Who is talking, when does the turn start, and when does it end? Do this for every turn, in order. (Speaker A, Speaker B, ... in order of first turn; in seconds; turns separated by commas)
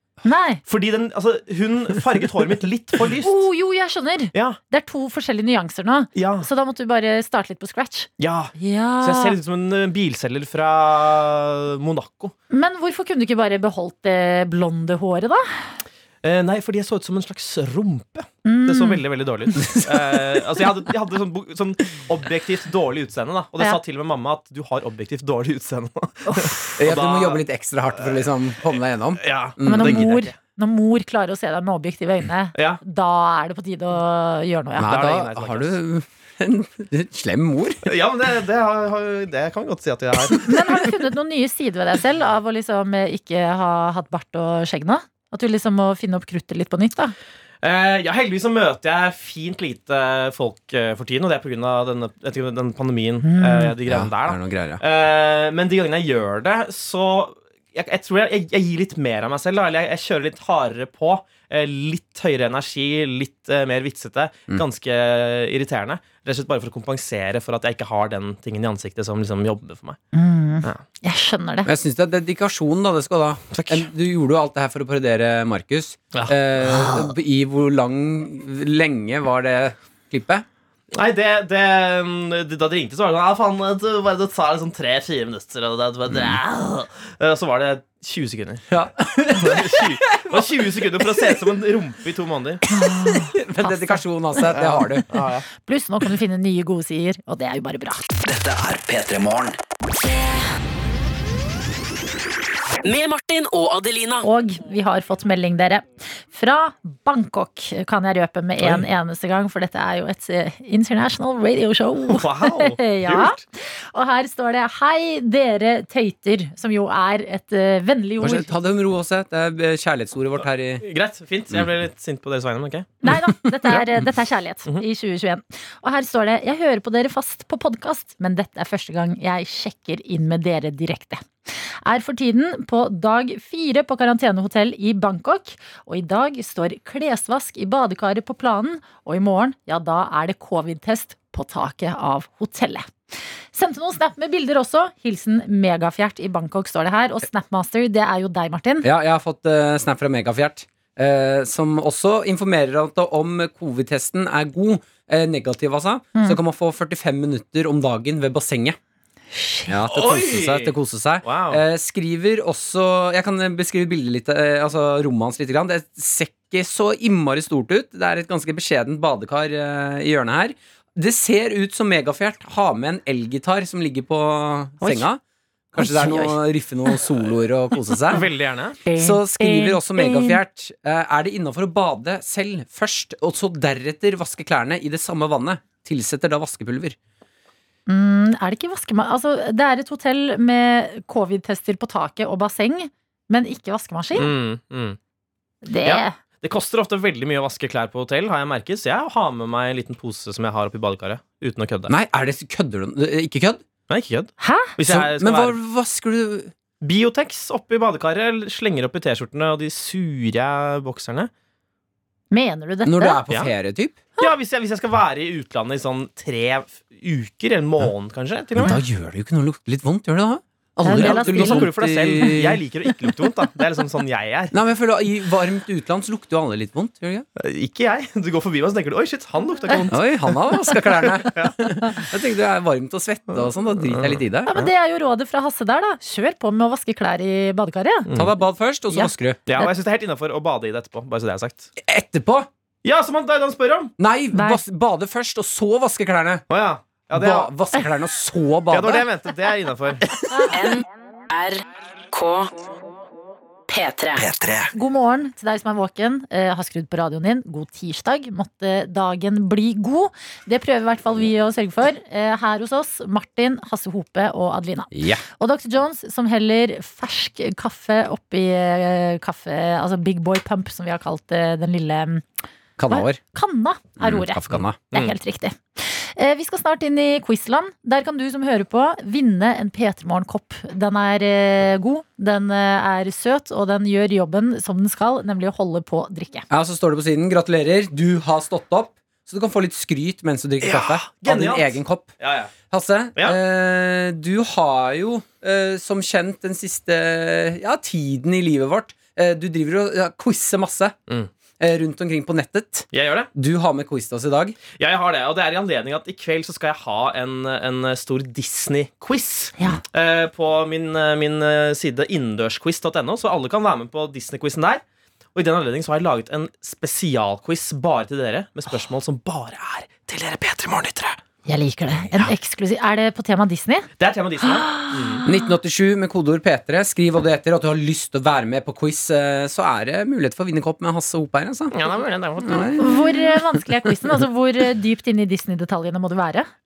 Speaker A: 0.2-0.6, Speaker B: 0.7-3.4, Speaker A: 3.2-9.3, Speaker B: 6.1-6.5, Speaker B: 8.2-12.3, Speaker A: 12.5-15.7, Speaker B: 16.2-27.4, Speaker A: 18.4-19.0, Speaker C: 26.8-30.1, Speaker B: 28.0-28.2, Speaker B: 29.2-30.3, Speaker A: 29.6-34.9, Speaker B: 32.5-32.8, Speaker C: 34.8-37.9, Speaker B: 34.8-35.8, Speaker B: 37.8-40.9, Speaker A: 40.4-47.1, Speaker B: 47.6-70.0, Speaker A: 53.2-53.7, Speaker C: 53.9-54.8, Speaker A: 70.1-71.7, Speaker C: 71.7-80.4, Speaker B: 73.5-73.9, Speaker B: 76.1-77.1, Speaker B: 80.9-88.6, Speaker C: 86.1-86.4, Speaker C: 88.7-91.4, Speaker B: 89.3-92.6, Speaker A: 92.7-94.0, Speaker C: 92.7-95.0, Speaker B: 94.5-95.5, Speaker A: 95.6-98.0, Speaker D: 98.2-99.6, Speaker E: 102.8-104.2, Speaker A: 104.2-113.3, Speaker B: 112.1-113.4, Speaker A: 113.9-118.5, Speaker C: 118.2-120.8, Speaker B: 120.8-123.0, Speaker A: 123.0-131.2, Speaker C: 123.0-124.0, Speaker A: 131.8-142.9, Speaker A: 143.5-148.9, Speaker C: 148.8-158.8, Speaker A: 159.3-159.7, Speaker C: 159.7-175.2, Speaker B: 159.9-161.6, Speaker A: 174.8-175.1, Speaker C: 175.7-178.2, Speaker A: 175.8-177.0, Speaker B: 178.1-178.8, Speaker A: 178.8-180.4, Speaker C: 178.9-186.9, Speaker A: 187.9-194.3, Speaker B: 194.1-195.0, Speaker A: 195.6-196.1, Speaker B: 195.8-201.9, Speaker C: 201.9-203.6, Speaker B: 203.9-205.6, Speaker A: 204.4-204.7, Speaker C: 204.8-206.5, Speaker B: 206.8-211.3, Speaker A: 212.3-213.2, Speaker C: 212.8-214.0, Speaker B: 214.2-218.8, Speaker C: 218.6-222.6, Speaker A: 220.8-222.3, Speaker B: 220.9-224.5, Speaker C: 224.5-227.2, Speaker B: 227.4-230.4, Speaker C: 229.9-234.5, Speaker B: 233.3-234.7, Speaker A: 234.5-238.1, Speaker C: 238.1-239.4, Speaker A: 238.9-239.7, Speaker B: 239.5-241.7, Speaker C: 241.8-242.5, Speaker B: 242.8-243.9, Speaker C: 244.0-246.4, Speaker A: 244.3-244.6, Speaker B: 246.5-247.5, Speaker C: 247.1-249.0, Speaker B: 248.7-250.0, Speaker E: 250.5-252.5, Speaker E: 253.7-254.2, Speaker D: 254.2-254.7, Speaker A: 254.7-272.2, Speaker C: 264.9-265.2, Speaker C: 272.8-273.2, Speaker A: 272.9-286.4, Speaker C: 274.0-274.8, Speaker C: 286.5-292.1, Speaker B: 290.6-292.5, Speaker C: 292.7-300.9, Speaker C: 301.6-304.6, Speaker B: 302.9-303.3, Speaker B: 304.8-314.8, Speaker B: 315.3-321.2, Speaker A: 321.5-323.9, Speaker B: 324.0-325.2, Speaker A: 324.4-325.5, Speaker C: 325.2-331.8, Speaker B: 331.7-332.9, Speaker C: 332.4-333.6, Speaker A: 332.8-336.5